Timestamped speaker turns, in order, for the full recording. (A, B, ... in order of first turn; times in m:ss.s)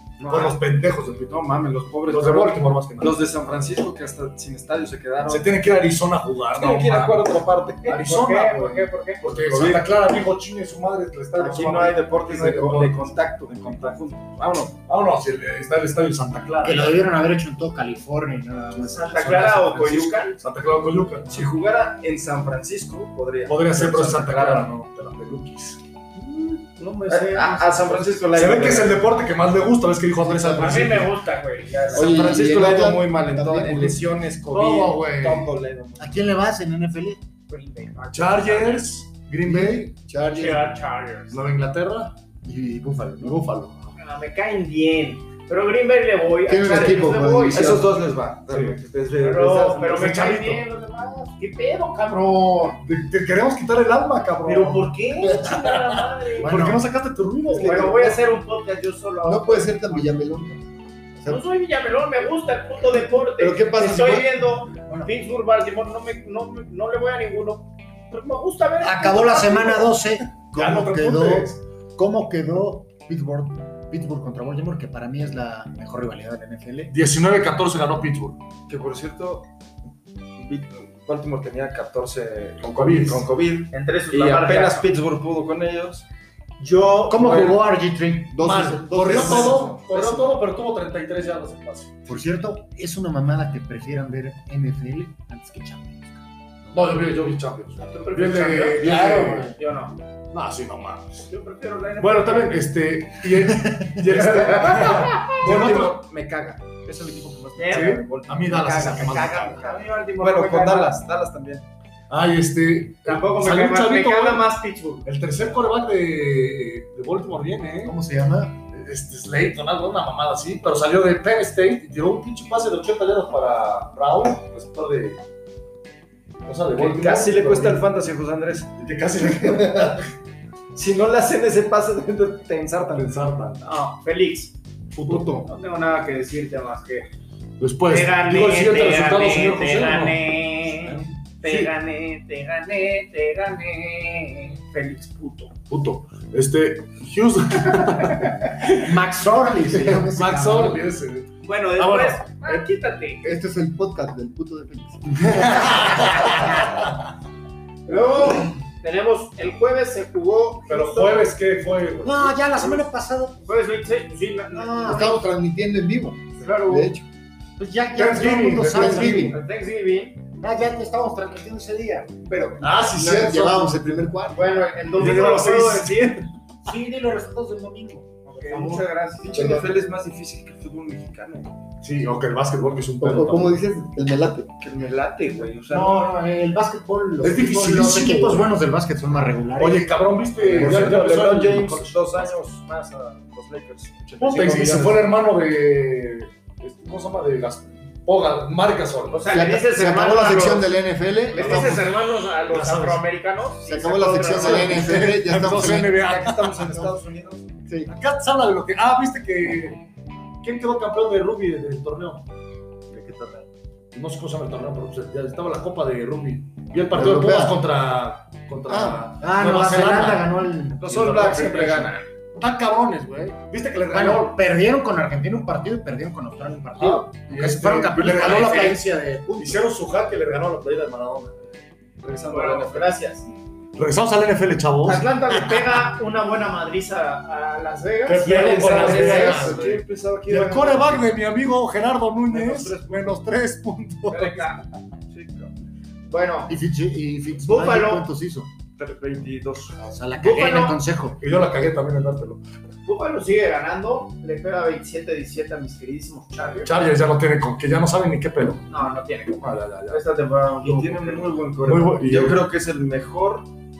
0:00.2-0:00.6 A
0:00.2-0:01.4 B
0:01.3-0:05.6 C
0:02.1-0:03.2 B
0:05.3-0:13.0 B
0:06.5-0:08.1 C
0:07.9-0:09.2 A
0:09.2-0:09.9 C
0:11.3-0:14.8 C
0:14.8-0:17.0 B
0:16.6-0:19.7 D
0:18.7-0:21.4 B
0:19.0-0:20.4 A
0:21.3-0:24.7 C
0:23.5-0:25.8 B
0:26.1-0:28.2 A
0:27.1-0:29.0 C
0:28.3-0:31.1 B
0:30.6-0:32.4 A
0:31.9-0:36.2 C
0:31.9-0:34.0 E
0:34.5-0:35.5 B
0:36.0-0:37.2 D
0:37.5-0:38.9 A
0:38.1-0:39.9 B
0:39.4-0:40.7 E
0:40.3-0:41.4 A
0:41.3-0:42.2 B
0:42.4-0:43.4 D
0:43.2-0:43.9 B
0:44.0-0:47.7 A
0:46.4-0:47.9 E
0:47.5-0:50.1 C
0:48.5-0:48.8 B
0:49.2-0:52.8 A
0:49.8-0:50.6 B
0:52.8-0:58.2 B
0:54.4-0:56.5 A
0:56.4-0:56.8 D
0:57.5-1:00.1 A
0:57.6-0:58.1 E
0:59.2-1:01.4 E
1:01.2-1:10.0 A
1:03.4-1:04.5 E
1:08.8-1:16.9 D
1:10.5-1:11.6 B
1:16.9-1:18.4 B
1:18.7-1:19.4 C
1:20.4-1:26.0 C
1:22.6-1:23.2 B
1:23.7-1:24.9 A
1:26.6-1:27.5 A
1:27.1-1:28.7 D
1:27.2-1:27.5 C
1:28.3-1:29.8 E
1:28.4-1:31.9 B
1:29.1-1:30.2 C
1:32.1-1:37.0 D
1:36.7-1:39.5 B
1:37.8-1:40.0 A
1:38.7-1:39.5 D
1:40.3-1:41.2 B
1:41.3-1:42.7 A
1:42.0-1:46.0 B
1:43.6-1:44.0 D
1:44.2-1:51.6 C
1:47.6-1:50.9 A
1:47.7-1:49.6 B
1:52.1-1:54.5 B
1:53.0-1:55.1 A
1:55.0-1:58.0 B
1:57.8-1:58.6 D
1:58.7-2:05.2 B
2:06.4-2:07.8 B
2:06.8-2:08.7 C
2:08.8-2:10.1 B
2:10.7-2:13.0 C
2:13.0-2:13.7 B
2:13.6-2:17.1 A
2:15.0-2:15.4 B
2:17.6-2:21.7 B
2:17.9-2:25.5 A
2:25.7-2:29.0 B
2:27.9-2:28.3 A
2:28.7-2:30.8 D
2:29.7-2:32.7 B
2:31.4-2:33.3 A
2:33.2-2:36.4 E
2:35.2-2:37.1 B
2:37.9-2:41.3 A
2:40.7-2:42.8 B
2:42.0-2:43.4 D
2:43.4-2:45.2 A
2:44.5-2:45.2 D
2:44.8-2:47.1 E
2:46.4-2:46.9 A
2:47.6-2:49.4 D
2:47.9-2:49.3 B
2:48.6-2:49.4 E
2:48.8-2:50.2 A
2:50.4-2:52.2 D
2:52.3-2:54.6 E
2:52.6-2:54.1 B
2:54.3-2:56.3 A
2:54.9-2:56.1 B
2:56.6-2:58.8 D
2:58.3-2:59.7 A
2:59.2-3:01.6 C
2:59.3-2:59.7 E
3:01.8-3:03.6 B
3:03.0-3:04.5 E
3:04.6-3:06.1 C
3:05.7-3:11.0 D
3:07.2-3:08.4 B
3:09.6-3:12.2 B
3:10.5-3:15.0 C
3:14.2-3:19.3 B
3:19.1-3:20.7 A
3:19.3-3:21.8 E
3:21.3-3:25.0 A
3:21.4-3:23.0 B
3:23.6-3:26.0 E
3:24.4-3:26.8 B
3:25.7-3:27.4 C
3:27.9-3:29.8 B
3:30.4-3:32.3 B
3:33.9-3:44.4 B
3:37.0-3:37.5 E
3:38.7-3:39.0 E
3:39.2-3:41.1 D
3:40.8-3:42.0 C
3:43.9-3:49.6 D
3:46.8-3:48.8 B
3:49.4-3:51.6 B
3:52.0-3:53.0 C
3:52.2-3:53.2 A
3:53.8-3:55.7 B
3:54.8-3:59.8 A
3:58.0-4:04.6 B
3:58.2-4:01.0 C
4:02.3-4:03.0 C
4:04.1-4:04.6 A
4:05.1-4:05.5 C
4:06.1-4:06.5 A
4:06.5-4:08.5 D
4:07.4-4:08.1 A
4:08.8-4:09.9 C
4:09.9-4:11.2 D
4:10.2-4:10.8 A
4:11.2-4:12.4 B
4:12.8-4:16.7 A
4:16.6-4:18.6 B
4:18.7-4:20.0 A
4:19.4-4:20.0 B
4:19.9-4:23.5 C
4:20.6-4:21.3 A
4:21.6-4:22.4 B